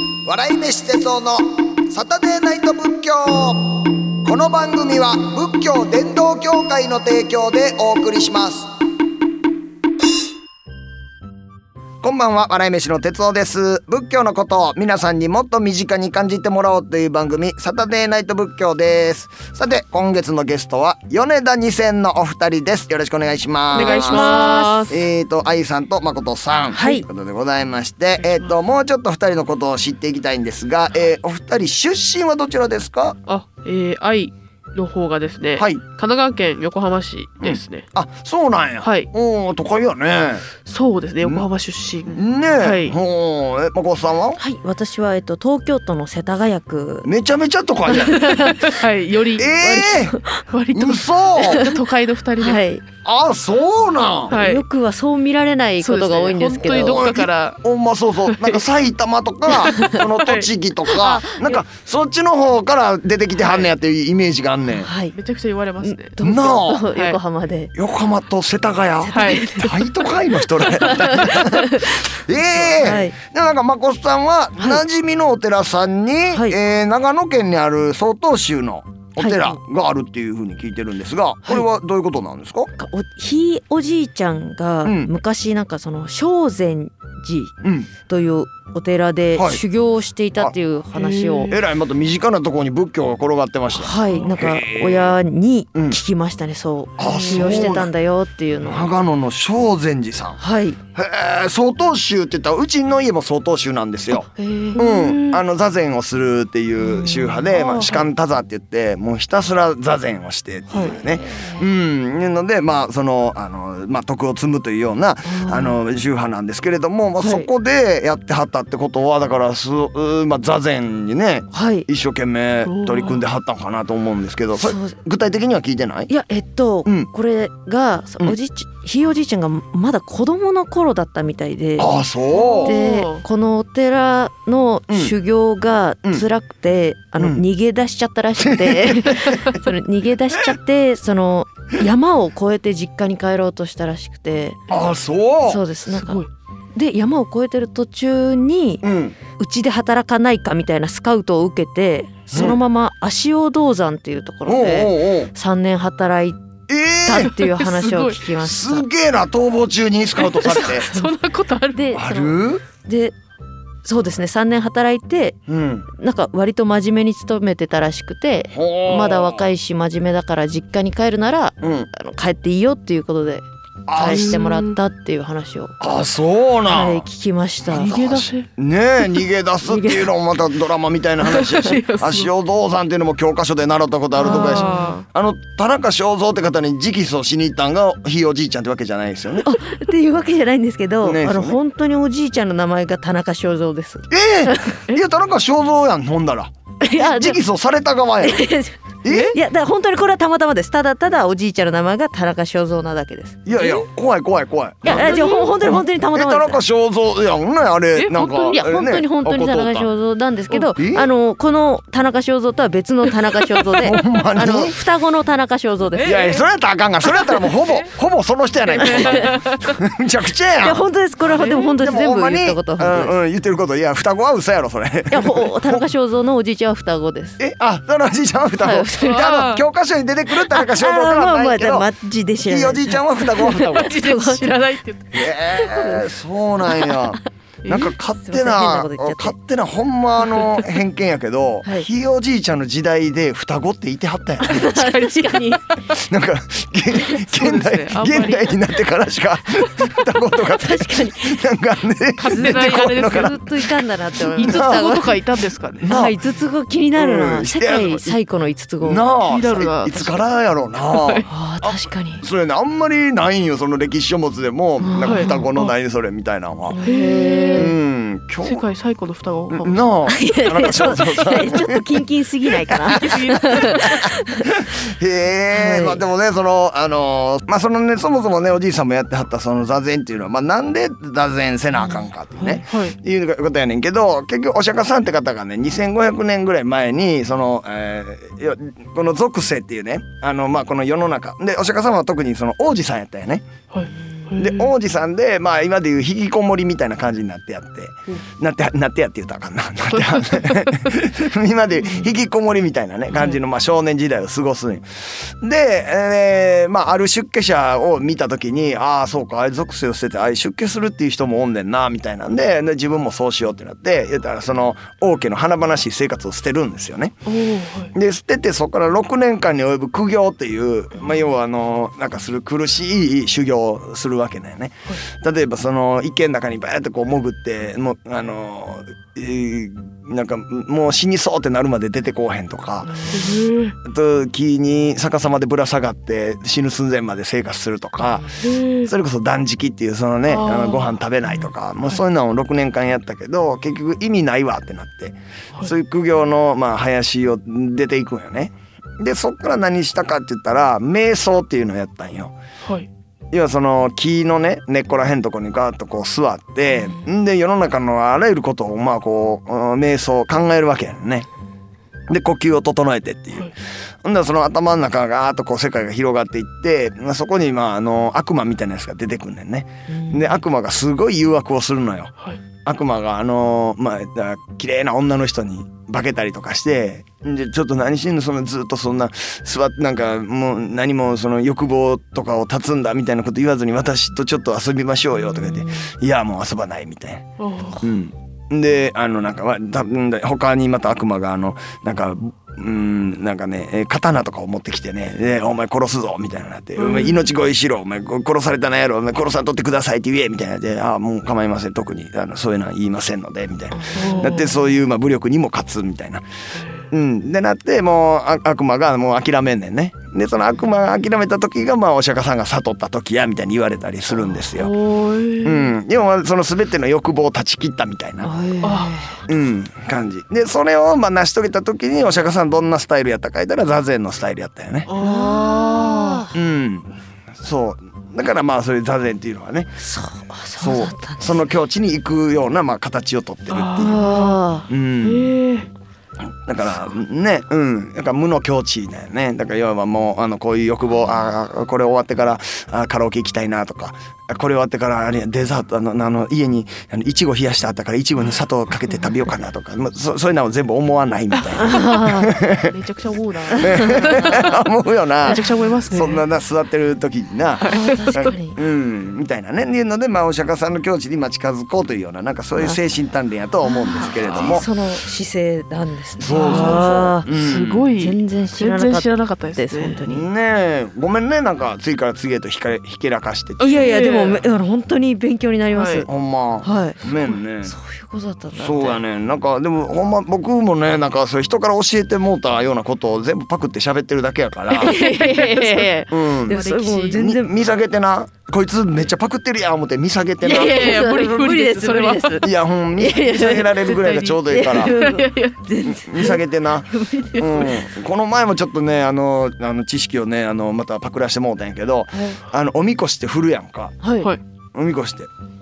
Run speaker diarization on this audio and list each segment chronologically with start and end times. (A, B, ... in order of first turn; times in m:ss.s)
0:00.2-0:08.7 A
0:12.0-0:24.4 A
0:23.7-0:24.9 B
0:23.7-0:25.0 C
0:24.9-0:33.2 A
0:26.7-0:27.0 B
0:28.2-0:28.6 C
0:33.3-0:37.9 C
0:35.6-0:35.8 A
0:37.4-0:40.4 A
0:38.8-0:39.1 C
0:40.6-0:43.0 C
0:42.1-0:44.4 A
0:44.4-0:47.1 B
0:47.0-0:48.3 A
0:47.9-0:48.8 B
0:48.2-0:49.5 C
0:49.4-0:50.2 A
0:49.5-0:50.4 B
0:50.5-0:52.6 C
0:50.7-0:51.6 A
0:51.4-0:51.8 B
0:52.4-0:52.8 B
0:53.0-0:54.4 A
0:54.3-0:54.6 C
0:54.3-0:57.1 B
0:55.8-0:57.6 C
0:56.6-1:04.9 A
0:58.3-0:58.6 C
0:59.5-1:00.5 C
1:01.0-1:01.6 B
1:03.4-1:03.7 C
1:04.8-1:05.2 B
1:05.1-1:06.2 C
1:05.8-1:07.7 B
1:06.2-1:06.9 A
1:07.0-1:07.2 C
1:07.8-1:22.7 A
1:09.0-1:09.9 B
1:09.1-1:09.9 C
1:10.7-1:11.4 C
1:10.8-1:12.0 B
1:12.4-1:12.8 C
1:12.8-1:13.2 B
1:16.3-1:16.6 B
1:19.2-1:19.6 B
1:22.8-1:27.5 B
1:24.8-1:25.1 A
1:27.6-1:27.9 A
1:28.1-1:31.6 B
1:29.4-1:29.6 A
1:30.9-1:31.6 C
1:31.5-1:35.2 A
1:33.7-1:38.9 B
1:37.0-1:37.9 A
1:37.1-1:37.6 C
1:38.6-1:40.4 A
1:40.4-1:40.8 B
1:41.0-1:44.3 A
1:44.1-1:44.8 B
1:44.7-1:45.4 C
1:44.8-2:06.1 A
1:46.8-1:47.5 B
1:47.5-1:48.1 C
1:50.8-1:51.7 B
1:55.3-1:55.8 B
1:57.2-1:57.5 B
2:01.5-2:01.9 B
2:02.6-2:03.2 C
2:04.6-2:05.0 B
2:06.1-2:12.0 B
2:11.8-2:12.8 A
2:12.3-2:13.2 C
2:12.6-2:24.6 B
2:14.9-2:15.1 A
2:17.2-2:17.4 A
2:18.4-2:19.5 A
2:24.7-2:25.6 A
2:25.5-2:26.2 B
2:25.9-2:26.3 C
2:26.8-2:36.4 B
2:28.8-2:29.2 A
2:32.3-2:32.6 A
2:34.5-2:35.3 A
2:36.7-2:37.3 A
2:37.0-2:38.9 B
2:37.2-2:38.2 C
2:38.4-2:40.9 A
2:40.2-2:42.0 C
2:40.6-2:41.1 B
2:41.7-2:43.1 B
2:41.9-2:42.6 A
2:43.8-2:45.4 B
2:45.5-2:45.9 A
2:45.9-2:55.8 B
2:48.5-2:49.5 A
2:51.6-2:51.9 A
2:53.9-2:54.4 A
2:54.0-2:54.8 C
2:55.8-2:57.1 A
2:56.7-2:58.2 B
2:57.7-3:09.5 A
2:57.7-2:58.5 C
2:59.6-3:00.1 B
3:01.2-3:02.3 C
3:04.2-3:05.1 C
3:04.2-3:05.0 B
3:09.4-3:14.8 B
3:11.0-3:11.6 A
3:14.1-3:18.5 A
3:16.8-3:17.4 B
3:18.2-3:23.8 B
3:19.0-3:19.4 A
3:19.1-3:19.4 C
3:23.4-3:29.9 A
3:24.8-3:26.6 B
3:24.9-3:25.5 C
3:28.0-3:28.6 C
3:28.5-3:36.2 B
3:30.8-3:31.1 A
3:33.8-3:34.7 A
3:36.0-3:36.4 C
3:36.0-3:40.8 A
3:37.1-3:37.9 C
3:38.7-3:39.8 C
3:38.8-3:39.3 B
3:40.6-3:43.2 B
3:41.3-3:41.8 C
3:41.8-3:45.8 A
3:45.1-3:47.4 B
3:47.4-3:51.9 A
3:48.6-3:49.3 B
3:49.0-3:49.6 C
3:50.5-3:54.6 B
3:52.4-3:54.0 A
3:53.5-3:55.3 C
3:55.1-4:04.7 A
3:55.5-3:56.1 B
3:56.6-3:57.2 B
3:57.6-3:57.9 C
3:57.7-3:59.4 B
4:04.4-4:05.8 B
4:04.5-4:05.8 C
4:05.9-4:15.0 A
4:07.1-4:08.6 C
4:10.4-4:11.4 B
4:12.2-4:13.4 C
4:12.3-4:15.2 B
4:14.4-4:16.0 C
4:15.8-4:16.2 A
4:15.9-4:19.0 B
4:17.0-4:18.2 A
4:18.8-4:26.8 A
4:19.3-4:20.2 C
4:20.9-4:21.3 C
4:21.3-4:22.2 B
4:24.8-4:25.5 B
4:25.0-4:25.7 C
4:26.7-4:27.7 B
4:26.8-4:27.7 C
4:27.6-4:28.6 A
4:28.4-4:29.8 C
4:29.5-4:31.9 A
4:30.1-4:34.5 B
4:32.7-4:33.2 A
4:32.9-4:34.1 C
4:33.8-4:53.5 A
4:35.5-4:36.0 B
4:41.9-4:42.6 B
4:42.7-4:43.0 C
4:53.7-4:54.7 C
4:54.4-5:17.2 A
4:59.9-5:01.0 C
5:17.3-5:17.9 C
5:17.9-5:33.0 A
5:32.8-5:33.2 B
5:33.1-5:33.8 C
5:33.8-5:52.3 A
5:38.0-5:38.4 B
5:38.4-5:38.9 C
5:40.3-5:41.0 C
5:53.3-6:01.3 A
6:02.1-6:03.5 A
6:04.0-6:12.1 A
6:09.9-6:10.4 B
6:12.6-6:27.2 A
6:25.3-6:25.9 B
6:27.4-6:27.8 C
6:27.8-6:46.3 A
6:36.8-6:37.3 C
6:43.7-6:44.7 B
6:44.0-6:44.5 C
6:46.6-6:46.9 C
6:46.9-6:54.7 A
6:54.5-6:55.7 C
6:55.4-6:58.3 A
6:58.2-6:59.2 B
6:58.6-6:59.0 C
6:59.3-7:04.9 A
7:04.9-7:06.3 C
7:05.0-7:06.3 B
7:06.3-7:09.7 A
7:09.8-7:11.4 B
7:10.6-7:14.0 A
7:13.5-7:14.4 C
7:13.8-7:14.7 B
7:14.7-7:15.3 A
7:15.0-7:15.7 C
7:16.5-7:32.8 A
7:31.6-7:32.3 B
7:32.5-7:34.6 C
7:33.6-7:44.7 A
7:33.6-7:34.5 B
7:35.2-7:36.2 C
7:37.6-7:38.3 C
7:37.7-7:38.6 B
7:43.7-7:47.3 B
7:43.9-7:44.6 C
7:46.2-7:47.9 A
7:46.3-7:50.0 C
7:48.0-7:50.3 B
7:50.1-7:53.6 A
7:53.6-7:56.1 B
7:53.6-7:54.4 C
7:55.7-7:56.1 C
7:56.1-7:57.7 A
7:56.6-7:57.0 B
7:57.6-7:59.0 B
7:58.6-8:05.0 A
8:04.8-8:07.2 C
8:04.8-8:07.6 B
8:06.1-8:11.0 A
8:10.4-8:12.5 C
8:10.4-8:17.8 B
8:12.4-8:15.0 A
8:13.7-8:15.6 C
8:15.8-8:24.0 A
8:22.2-8:22.4 B
8:24.0-8:24.3 B
8:24.7-8:25.3 A